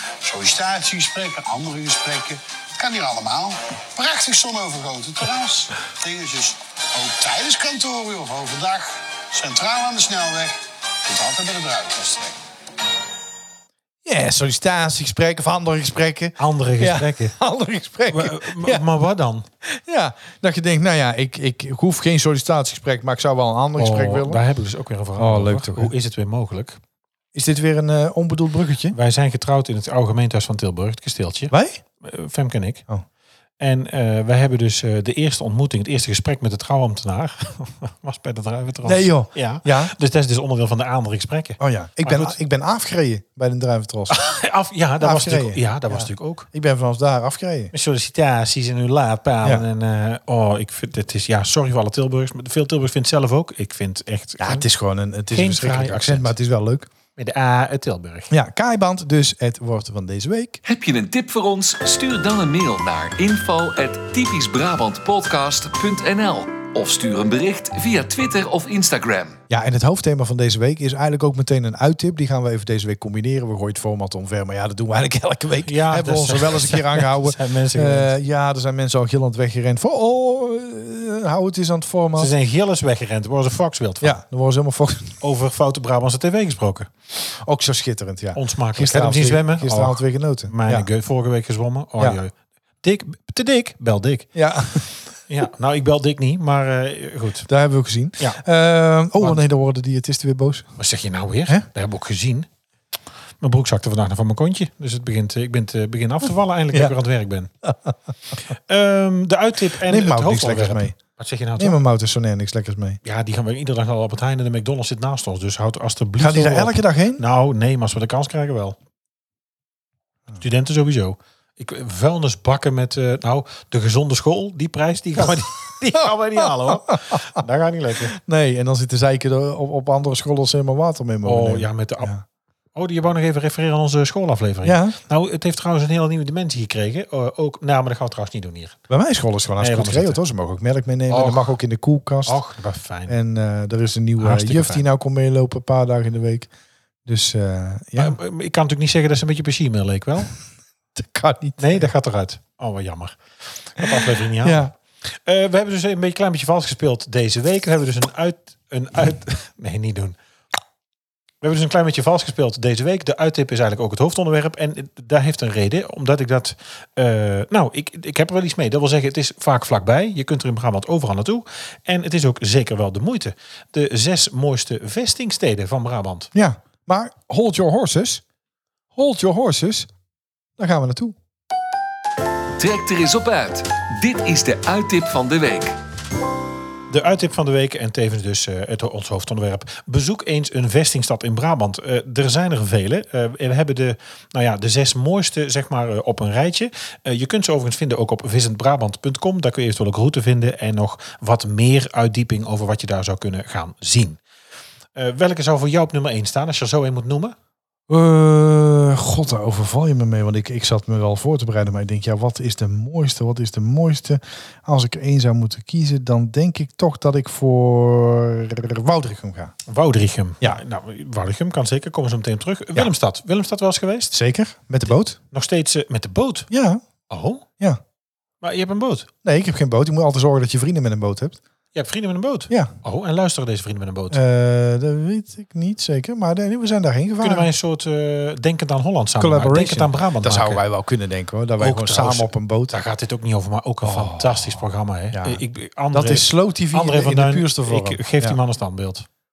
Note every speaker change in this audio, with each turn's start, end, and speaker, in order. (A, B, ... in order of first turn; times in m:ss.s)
0:00.2-0:12.4 A
0:14.0-0:18.8 B
0:16.4-0:17.4 C
0:18.1-0:19.5 C
0:19.6-0:24.4 B
0:23.8-0:26.8 C
0:25.2-0:25.9 B
0:27.3-0:29.0 B
0:28.9-0:32.9 C
0:31.5-0:31.8 B
0:33.6-0:42.4 C
0:38.8-0:39.9 B
0:41.6-0:44.2 B
0:44.1-0:46.5 C
0:45.0-0:47.7 B
0:47.7-0:54.7 C
0:54.4-0:56.9 B
0:55.3-0:56.3 C
0:57.2-0:58.3 C
0:58.3-1:00.6 B
1:00.6-1:09.4 D
1:09.5-1:22.3 B
1:15.6-1:18.2 C
1:22.2-1:24.2 C
1:24.0-1:25.2 B
1:25.2-1:26.9 C
1:27.3-1:30.9 B
1:28.4-1:34.3 C
1:34.4-1:34.9 B
1:35.3-1:37.5 C
1:37.5-1:40.7 B
1:40.8-1:42.5 C
1:43.4-1:47.5 C
1:47.6-1:48.3 B
1:48.5-1:51.8 C
1:49.8-1:51.0 B
1:51.6-1:53.0 B
1:53.0-1:58.8 C
1:56.2-1:57.2 B
2:00.4-2:08.2 C
2:06.4-2:07.3 B
2:08.2-2:12.2 B
2:11.2-2:12.1 C
2:12.8-2:18.8 C
2:14.6-2:15.0 B
2:18.9-2:22.4 B
2:19.6-2:20.2 C
2:21.1-2:21.5 C
2:22.3-2:23.1 C
2:23.1-2:26.5 B
2:24.2-2:24.9 C
2:27.1-2:28.2 B
2:28.0-2:30.3 C
2:31.0-2:31.9 B
2:31.6-2:40.2 C
2:33.8-2:34.7 B
2:41.4-2:56.3 C
2:56.3-2:58.2 B
2:58.9-2:59.9 B
3:00.6-3:01.2 B
3:02.6-3:05.8 D
3:06.9-3:24.2 C
3:25.0-3:27.4 C
3:27.9-3:39.6 B
3:39.7-3:44.1 C
3:44.1-3:45.2 B
3:45.3-3:46.5 C
3:46.5-3:46.8 B
3:47.1-3:47.4 C
3:48.4-3:49.1 C
3:49.2-3:51.4 B
3:51.8-3:54.2 C
3:52.5-3:52.8 B
3:54.1-3:57.5 B
3:57.2-4:00.6 C
3:59.2-4:02.8 B
4:01.6-4:09.1 C
4:03.8-4:08.4 B